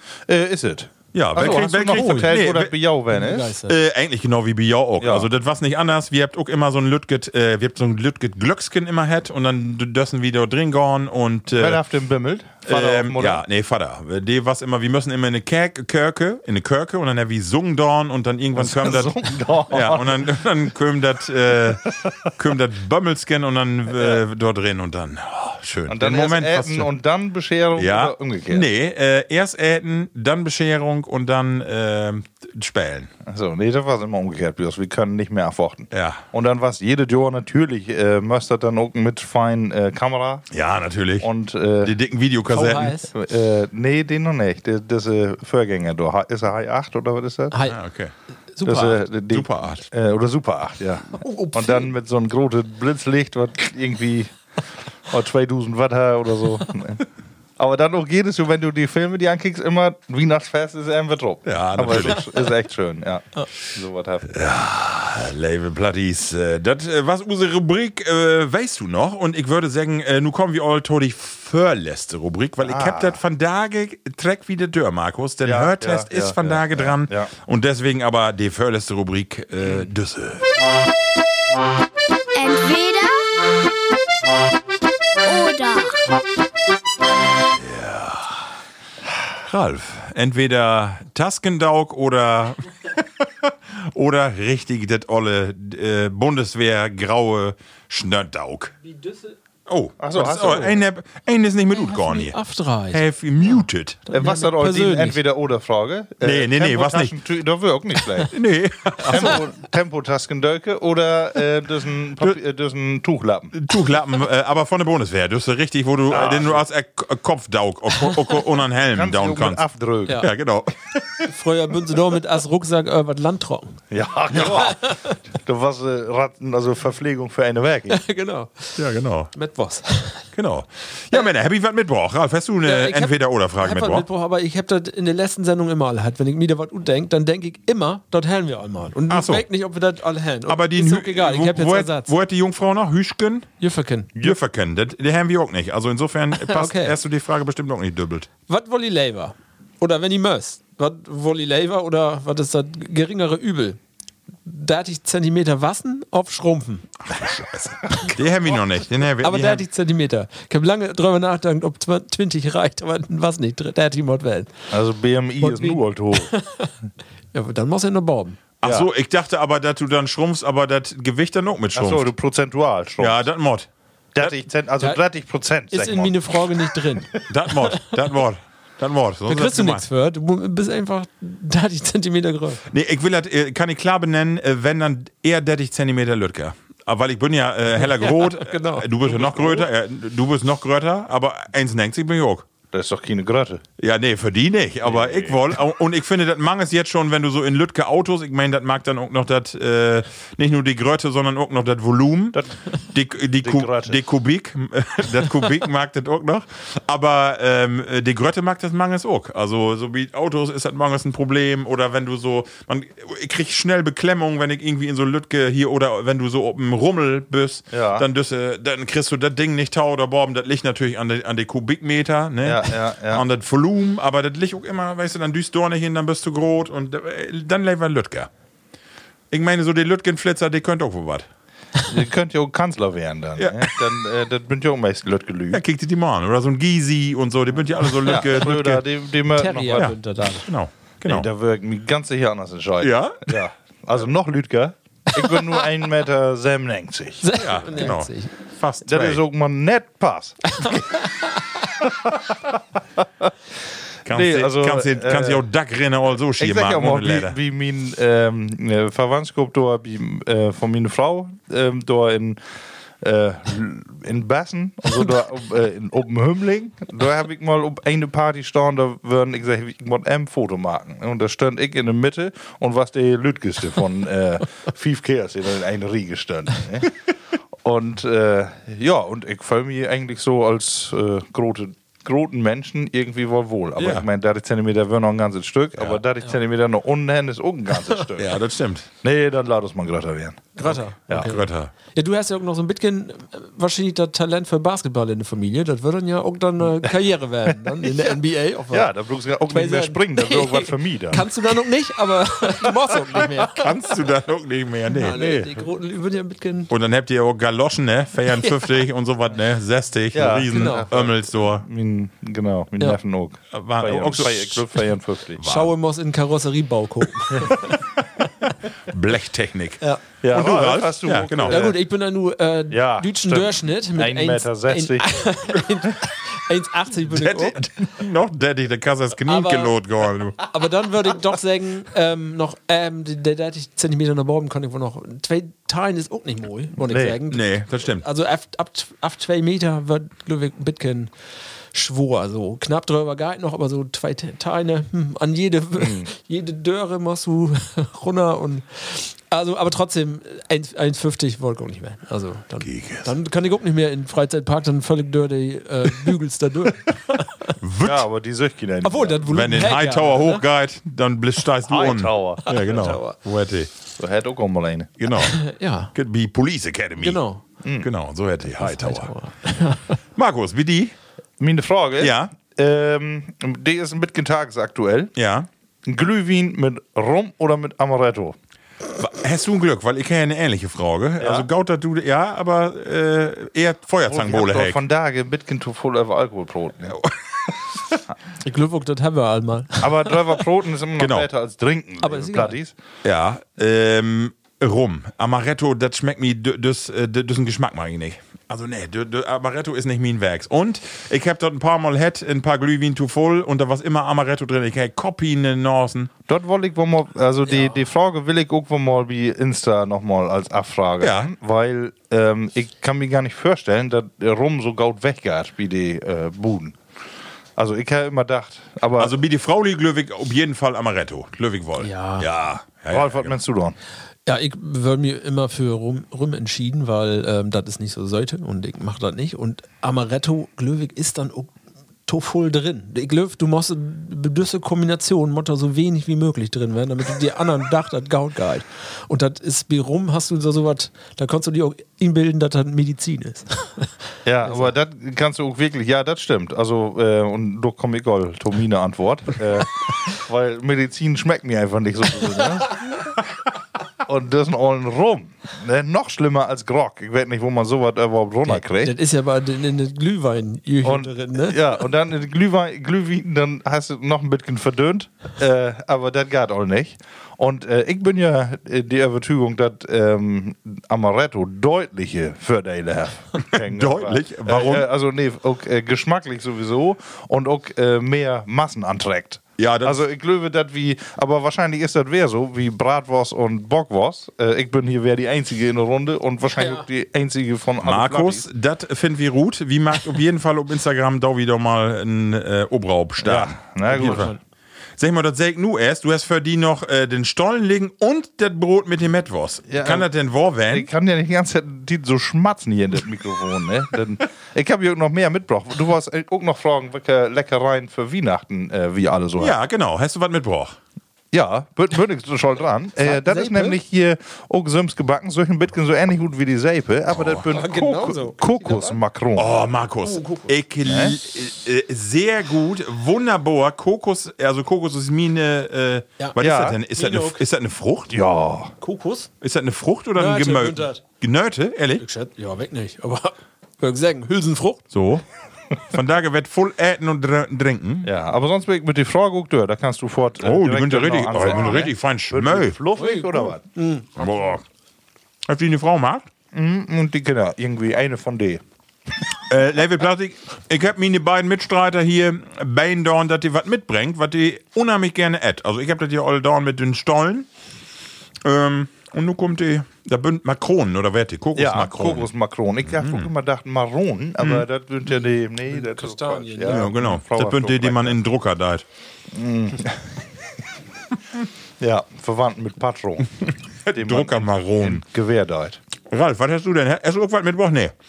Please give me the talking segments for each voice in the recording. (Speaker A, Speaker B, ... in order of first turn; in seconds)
Speaker A: 0.3-3.6, 5.0-5.3, 11.5-13.4, 18.6-20.3, 23.9-24.2, 25.9-28.7, 33.2-40.5, 41.2-42.0, 43.1-47.6, 48.6-54.4, 55.0-57.1, 57.6-64.3, 72.6-73.2, 75.4-77.3, 100.0-100.8, 104.1-108.3, 109.0-113.5, 116.1-116.7, 118.9-120.3, 123.9-128.0, 164.7-166.3, 168.6-168.9, 171.7-173.2, 174.2-176.5, 192.7-193.6, 194.8-195.5, 203.3-204.0, 217.7-218.1, 222.4-223.2, 231.9-235.6, 238.0-240.3, 241.1-247.9, 248.8-250.8, 251.8-252.4, 253.0-253.3, 254.1-255.4, 256.4-262.4, 263.0-276.9, 277.6-288.4, 289.0-291.3, 298.7-301.3, 305.1-305.6, 310.1-315.4, 320.2-321.8, 322.7-325.1, 336.9-337.2, 357.8-359.2, 361.6-362.4, 364.0-364.9, 367.6-367.9, 371.4-375.1, 375.9-378.4, 381.2-381.5, 384.1-387.0, 389.8-392.7, 406.3-416.8, 417.6-419.1, 422.9-423.8, 444.2-452.8, 454.1-458.9, 460.8-488.5, 493.2-494.3, 499.7-500.1, 500.6-509.6, 511.3-519.5, 520.8-521.2, 526.4-526.8, 528.1-528.7, 538.0-543.6, 546.5-548.6, 561.6-568.2, 569.3-570.2, 571.8-573.3, 573.9-575.8
Speaker B: 1.1-2.7, 3.7-11.8, 12.7-26.9, 27.8-33.1, 35.9-36.2, 40.5-41.3, 41.8-43.0, 47.7-48.1, 49.3-49.9, 61.5-62.3, 64.3-80.5, 87.6-88.4, 89.4-98.7, 99.7-102.4, 102.9-104.0, 106.2-107.2, 108.3-109.4, 113.5-119.6, 120.2-121.0, 128.8-129.3, 130.3-134.1, 139.1-139.4, 140.5-143.5, 144.2-148.3, 157.0-159.7, 168.6-172.1, 173.0-173.7, 177.3-179.8, 182.7-192.5, 193.8-202.4, 202.9-228.3, 229.3-231.3, 233.4-233.8, 235.5-238.9, 239.8-241.3, 242.8-243.3, 247.4-249.2, 254.1-257.4, 283.8-284.1, 288.2-288.9, 291.1-291.7, 303.6-305.2, 306.7-311.7, 313.5-314.8, 315.4-315.7, 318.4-321.7, 327.1-330.4, 337.3-338.1, 352.6-353.1, 357.6-358.0, 359.3-363.7, 365.0-365.4, 365.9-367.2, 367.8-369.1, 370.2-370.9, 372.0-372.3, 375.1-375.5, 379.0-384.8, 386.9-387.5, 391.0-391.3, 393.0-406.1, 411.0-411.3, 419.0-423.3, 473.5-474.9, 479.6-480.0, 487.8-494.3, 495.0-500.9, 509.4-510.8, 517.1-517.4, 519.4-528.2, 529.4-532.0, 534.9-535.2, 535.9-538.1, 540.4-542.8, 544.2-544.6, 545.5-546.3, 549.5-557.5, 558.4-562.3, 562.9-563.3, 566.7-568.8, 573.5-575.0, 576.1-577.9
Speaker C: 1.4-2.4, 3.1-3.7, 42.5-43.1, 47.5-47.8, 48.5-49.0, 51.1-51.9, 98.8-99.3, 101.7-103.0, 104.1-105.2, 121.2-123.8, 124.5-125.2, 127.9-128.8, 129.3-130.3, 132.6-142.1, 143.6-144.2, 146.4-147.0, 148.5-153.8, 154.4-156.9, 159.2-164.6, 165.4-166.7, 167.3-168.4, 175.7-177.2, 179.3-182.6, 187.8-189.7, 239.4-240.5, 247.2-248.3, 250.6-251.3, 290.6-298.9, 299.5-303.7, 304.9-306.7, 308.3-308.8, 310.5-310.9, 315.4-317.8, 321.4-327.7, 329.3-329.8, 330.4-341.1, 341.7-357.5, 358.8-360.4, 362.5-363.2, 365.3-365.9, 367.0-367.4, 368.6-370.0, 388.4-390.4, 392.0-392.6, 407.5-407.8, 421.8-422.3, 424.3-431.5, 432.1-443.9, 444.4-444.7, 458.5-461.7, 486.6-486.9, 493.9-494.4, 513.0-513.8, 517.5-519.0, 520.0-520.6, 526.9-527.4, 528.8-529.3, 530.2-531.0, 532.0-534.9, 543.0-544.1, 565.1-566.9
Speaker D: 82.3-83.3, 85.2-86.2